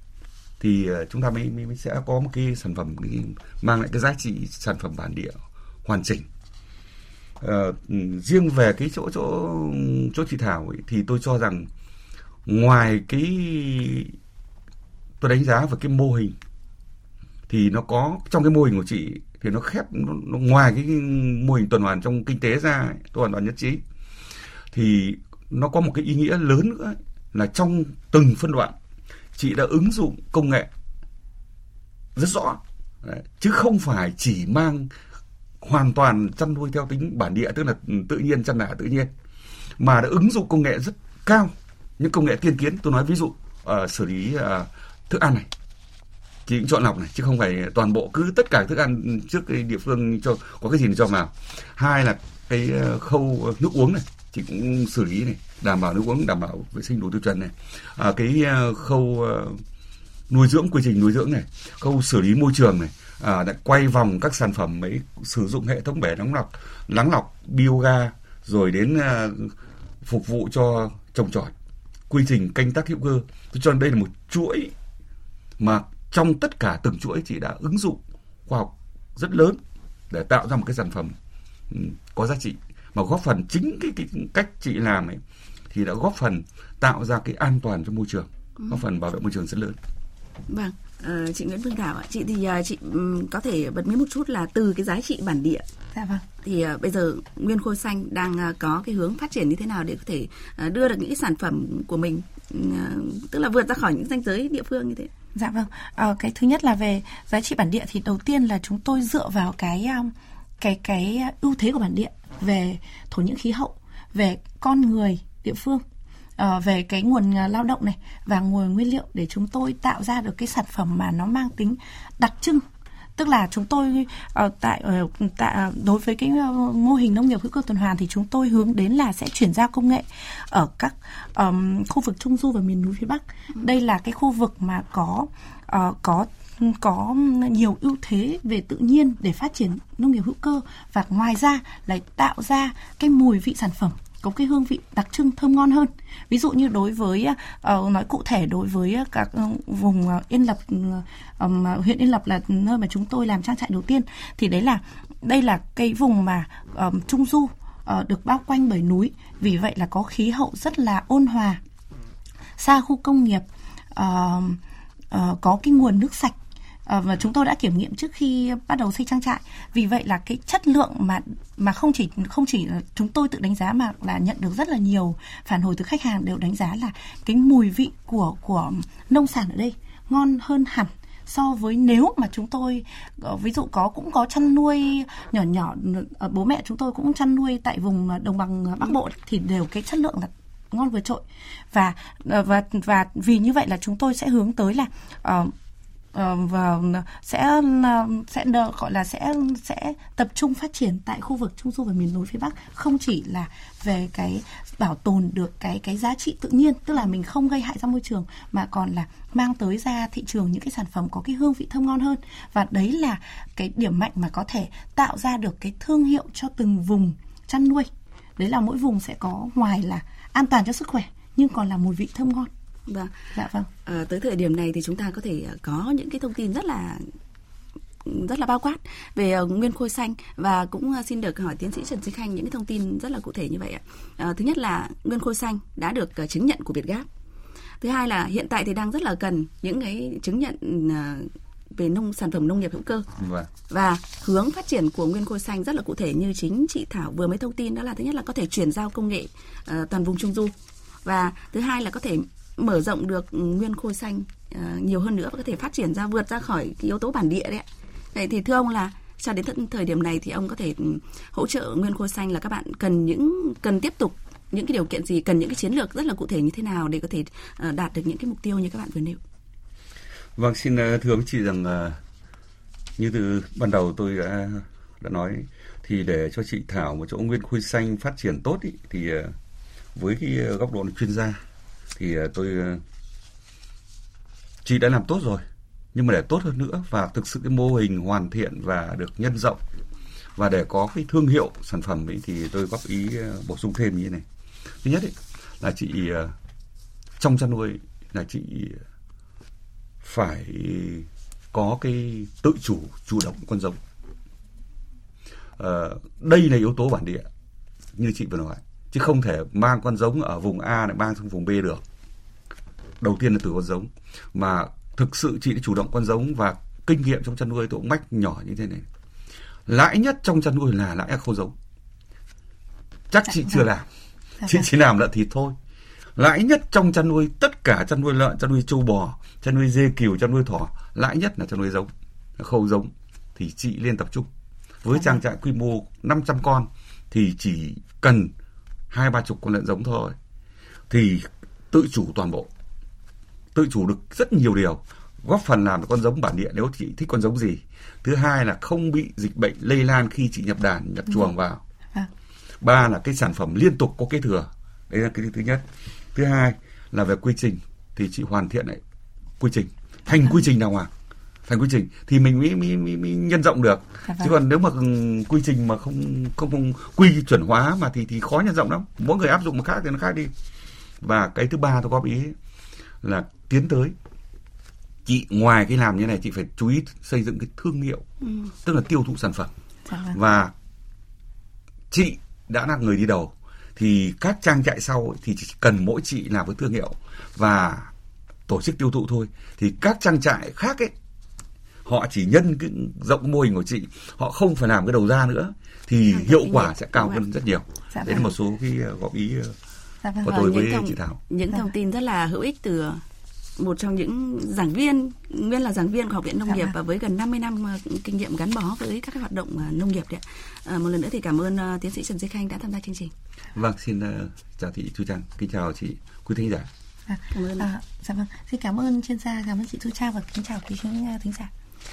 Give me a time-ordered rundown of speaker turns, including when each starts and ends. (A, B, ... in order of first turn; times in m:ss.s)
0:00.6-0:06.3 A
0:07.4-0:11.7 A
0:12.4-0:14.1 A
0:15.2-0:16.4 A
0:17.5-0:23.8 A
0:24.7-0:28.8 A
0:29.4-0:30.7 A
0:32.1-0:34.9 A
0:35.6-0:39.1 A
0:39.8-0:45.5 A
0:46.4-0:59.6 A
1:00.3-1:11.5 A
1:12.1-1:14.7 A
1:15.6-1:21.2 A
1:21.7-1:29.8 A
1:30.5-1:35.6 B
1:35.9-1:36.2 C
1:36.4-1:45.1 B
1:45.3-1:55.8 C
1:56.4-2:02.6 C
2:03.2-2:41.6 C
2:42.6-2:44.6 C
2:45.1-2:46.3 C
2:46.9-3:15.5 C
3:16.1-3:42.5 C
3:42.9-3:43.1 B
3:43.3-3:43.7 C
3:43.8-3:47.0 B
3:48.0-3:57.1 B
3:57.8-4:03.1 B
4:03.2-4:03.5 A
4:03.7-4:10.5 B
4:11.0-4:29.2 B
4:30.4-4:32.0 A
4:33.0-4:39.3 A
4:39.9-4:41.4 A
4:42.0-4:42.8 A
4:44.6-4:49.6 A
4:50.4-4:54.2 A
4:54.8-4:56.3 A
4:57.2-4:58.8 A
5:00.0-5:03.8 A
5:05.6-5:07.3 A
5:08.0-5:11.8 A
5:13.0-5:18.9 A
5:19.7-5:21.6 A
5:23.1-5:23.9 A
5:24.4-5:25.6 A
5:26.2-5:34.3 A
5:34.8-5:38.3 A
5:38.9-5:40.2 A
5:40.9-5:42.5 A
5:43.5-5:51.6 A
5:52.6-5:58.8 A
5:59.4-6:00.9 A
6:01.4-6:10.3 A
6:04.1-6:04.3 C
6:11.0-6:12.4 A
6:13.0-6:13.9 A
6:15.0-6:18.0 A
6:18.6-6:19.5 A
6:19.9-6:20.2 C
6:20.1-6:20.5 A
6:21.9-6:27.9 A
6:28.5-6:30.9 A
6:31.8-6:39.6 A
6:36.1-6:37.2 B
6:37.9-6:38.2 C
6:40.0-6:40.3 C
6:40.2-6:41.2 A
6:40.2-6:43.0 B
6:43.6-6:53.1 B
6:46.5-6:46.7 C
6:53.5-6:56.7 A
6:57.1-7:01.5 C
6:57.3-6:57.7 B